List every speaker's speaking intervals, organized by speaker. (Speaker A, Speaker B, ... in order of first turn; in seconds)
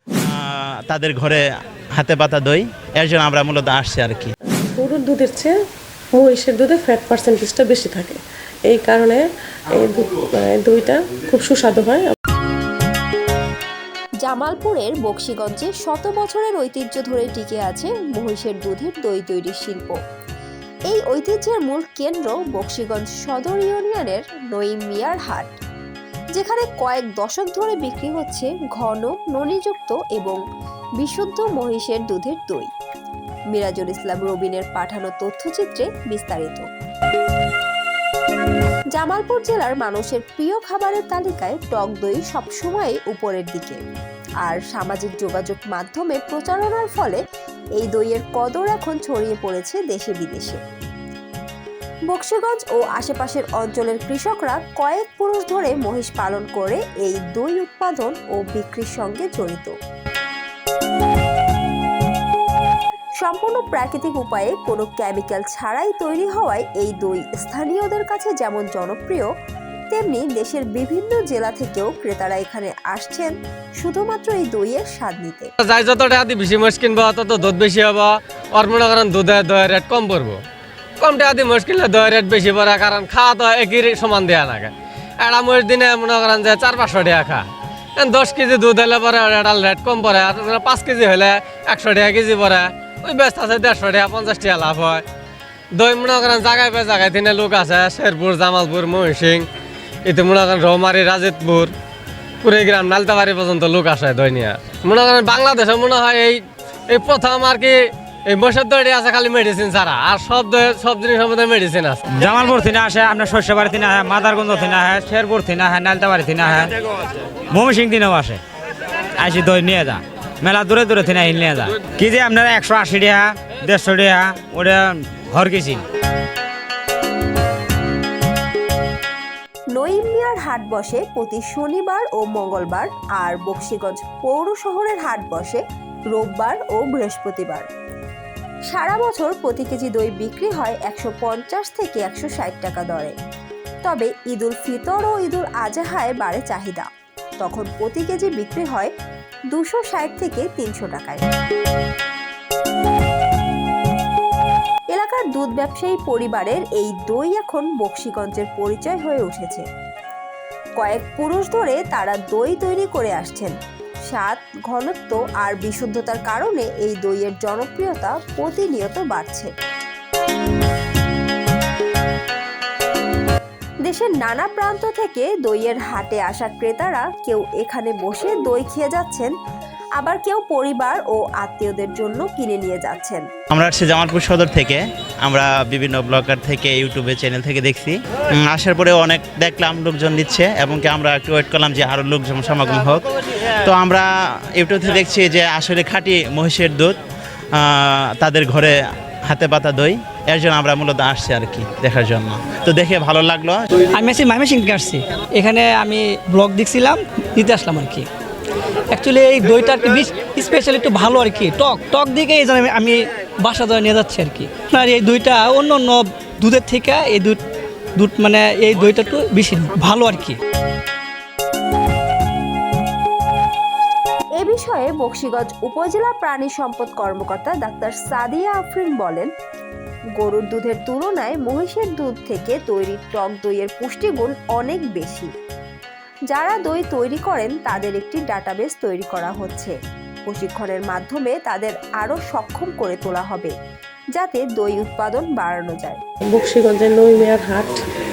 Speaker A: 0.2-4.3, 183.5-187.9, 188.5-193.1, 193.6-197.0, 197.5-198.8, 199.3-203.7
Speaker B: 4.6-5.5, 6.1-8.2, 8.7-12.0, 246.3-247.8
Speaker C: 14.2-20.0, 20.9-25.6, 26.3-30.4, 31.0-32.7, 33.5-36.7, 38.9-43.8, 44.4-47.2, 47.8-50.6, 52.1-59.7, 63.2-69.3, 69.9-75.5, 129.7-137.7, 138.7-143.1, 143.8-146.9, 147.4-148.9, 149.5-151.2, 154.9-159.6, 160.8-163.6, 164.1-169.5, 173.8-179.3, 180.0-183.2, 224.3-229.3, 230.2-235.3, 236.3-243.5, 244.1-246.0
Speaker D: 75.6-80.4, 81.0-95.0, 95.7-99.5, 100.0-101.7, 102.4-112.0
Speaker E: 112.2-116.7, 117.5-118.4, 119.2-125.8
Speaker F: 203.9-208.1, 208.9-217.4, 217.9-220.4